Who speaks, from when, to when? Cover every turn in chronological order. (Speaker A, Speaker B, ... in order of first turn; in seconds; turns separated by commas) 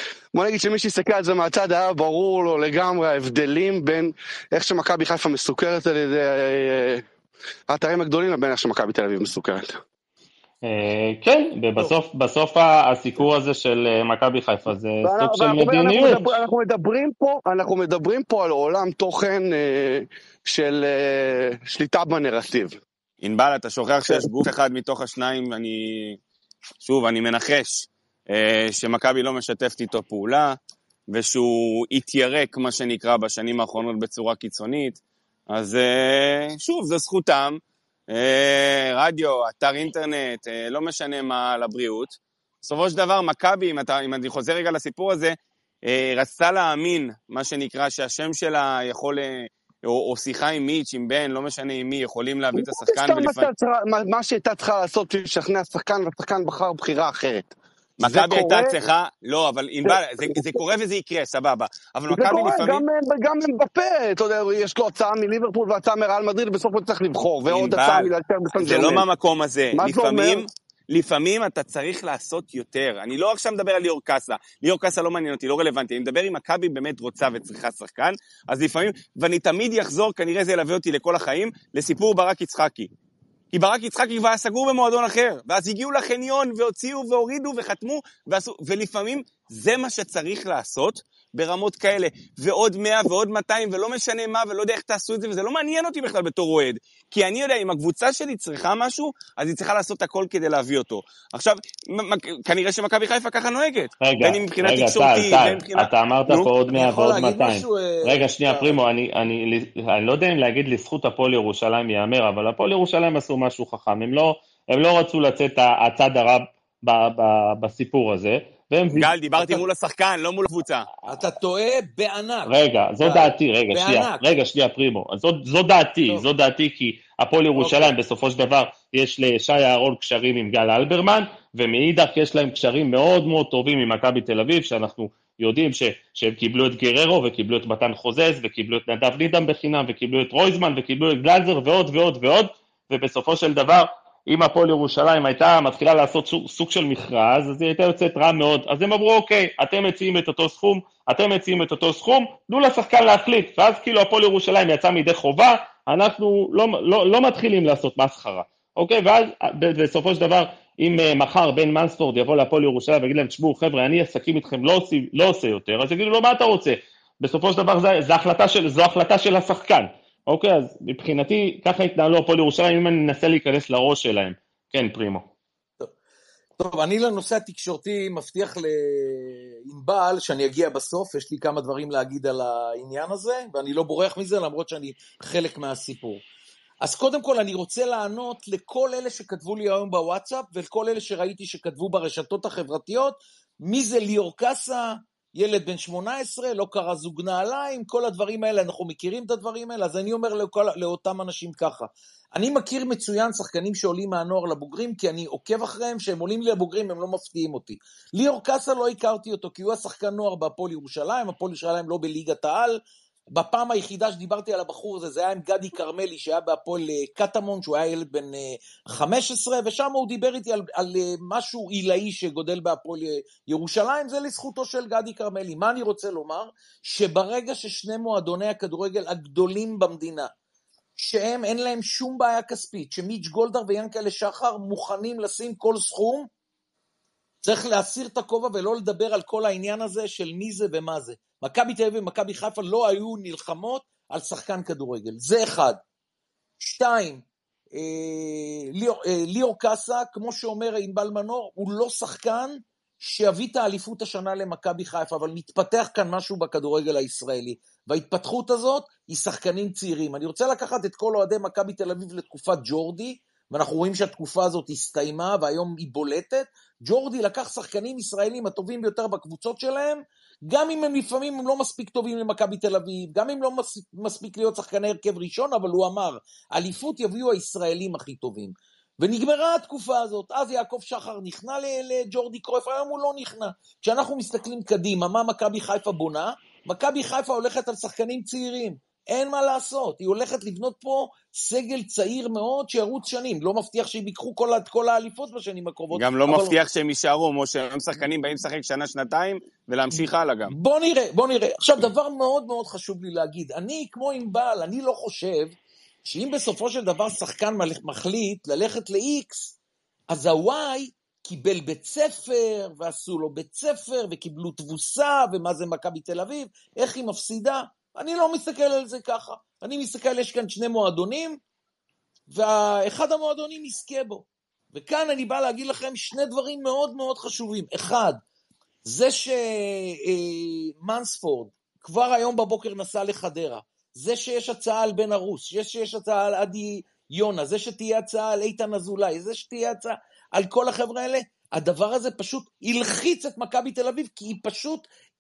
Speaker A: 0.3-7.0, Speaker A: 7.7-9.8, Speaker B: 10.6-16.3, Speaker A: 15.1-22.8, Speaker C: 23.2-26.2, Speaker C: 26.8-30.6, Speaker C: 31.1-45.4, Speaker C: 45.9-53.5, Speaker A: 52.5-58.8, Speaker C: 58.0-62.8, Speaker A: 59.8-60.6, Speaker A: 62.1-69.0, Speaker C: 67.5-82.9, Speaker A: 69.7-70.5, Speaker C: 83.5-106.5, Speaker B: 104.0-119.1, Speaker D: 106.7-108.8, Speaker C: 118.9-120.9, Speaker D: 121.0-124.3, Speaker B: 122.5-175.2, Speaker D: 127.5-128.0, Speaker D: 176.6-186.2, Speaker D: 186.8-212.8, Speaker D: 213.3-230.3, Speaker D: 231.0-236.3, Speaker D: 237.4-245.8, Speaker D: 246.6-247.2, Speaker D: 247.7-296.6, Speaker C: 295.9-300.5, Speaker D: 299.9-309.6, Speaker D: 310.1-321.4, Speaker D: 322.3-328.2, Speaker D: 328.8-344.9